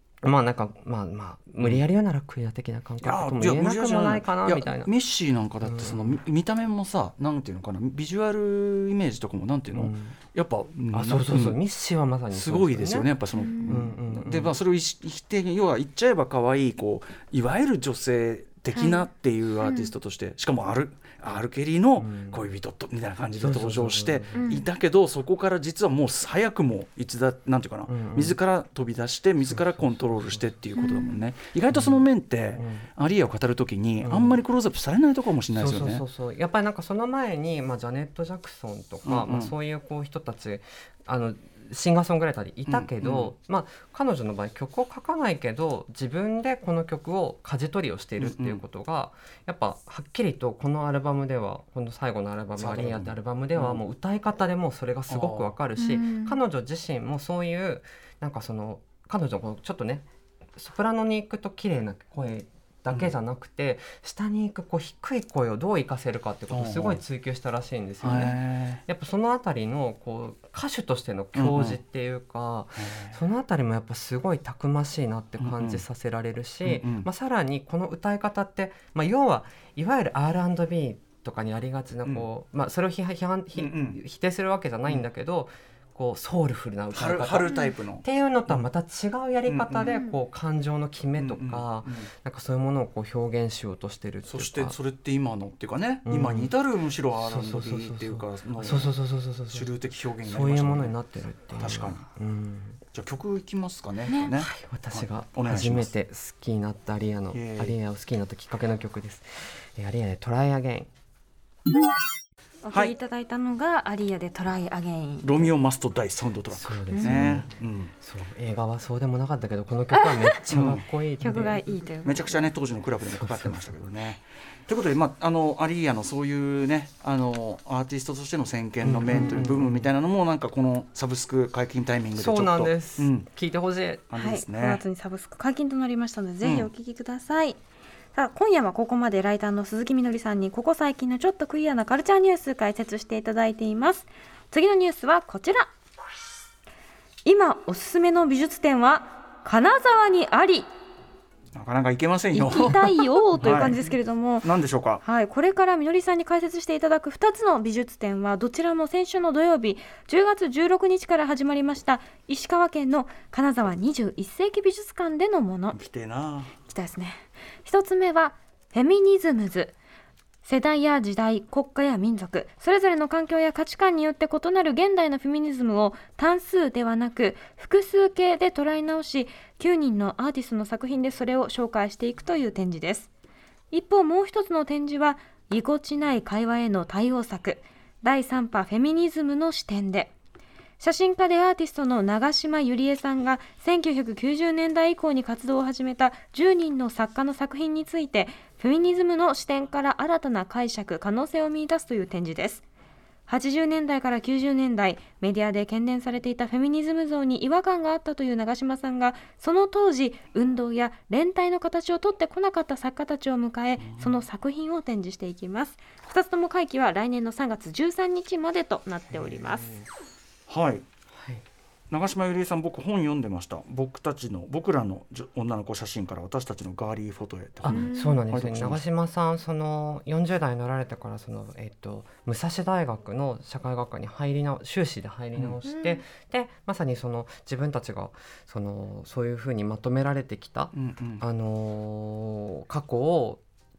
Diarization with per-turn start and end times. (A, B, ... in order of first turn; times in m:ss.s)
0:00.2-0:04.9 A
0:03.0-0:11.6 B
0:05.6-0:06.2 A
0:09.7-0:10.2 A
0:10.9-0:13.1 A
0:12.3-0:36.0 B
0:13.3-0:13.8 C
0:13.6-0:14.6 A
0:18.8-0:19.1 C
0:19.6-0:19.9 C
0:22.0-0:22.4 A
0:23.4-0:24.6 A
0:24.3-0:24.6 C
0:27.9-0:28.4 A
0:29.4-0:30.6 A
0:30.8-0:31.2 C
0:31.7-0:32.9 A
0:34.0-0:34.4 A
0:35.5-1:34.8 A
0:39.1-0:39.5 B
0:42.7-0:43.3 B
0:48.2-0:48.6 B
0:52.6-0:53.8 B
0:55.1-0:55.5 B
0:55.8-0:56.4 C
1:06.5-1:07.0 B
1:08.0-1:08.8 B
1:11.4-1:11.8 B
1:12.8-1:13.2 B
1:15.4-1:15.8 B
1:16.6-1:17.1 B
1:23.6-1:24.0 B
1:26.9-1:28.7 B
1:27.5-1:27.7 C
1:29.5-1:30.0 B
1:29.9-1:30.2 C
1:31.2-1:32.1 B
1:34.2-1:39.0 B
1:36.1-1:36.5 A
1:37.2-1:39.7 A
1:39.5-1:41.0 B
1:40.2-1:42.8 A
1:41.6-1:42.0 B
1:42.9-1:45.9 B
1:44.4-1:50.9 A
1:47.3-1:47.8 B
1:52.6-1:55.5 C
1:55.2-1:57.9 B
1:56.5-2:01.7 A
1:56.9-1:57.3 C
1:59.9-2:00.4 C
2:00.5-2:00.8 B
2:01.2-2:02.5 C
2:02.0-2:13.3 B
2:03.1-2:03.7 A
2:08.8-2:09.9 A
2:12.2-2:14.0 A
2:14.1-2:14.8 B
2:14.2-2:17.6 C
2:16.4-2:16.7 B
2:18.1-2:25.7 C
2:27.2-2:30.7 C
2:31.6-2:33.9 B
2:32.3-2:34.5 C
2:34.4-2:35.0 B
2:35.0-2:45.8 C
2:45.7-2:46.5 B
2:46.7-2:49.7 C
2:50.4-3:03.1 C
3:03.7-3:10.1 C
3:10.8-3:22.6 C
3:23.3-3:39.8 C
3:33.8-3:34.2 B
3:39.1-3:39.4 B
3:40.5-3:40.8 B
3:41.2-3:41.4 A
3:41.9-3:48.8 B
3:47.6-4:03.4 A
3:47.7-3:48.2 C
3:55.7-3:56.0 C
4:00.7-4:01.2 B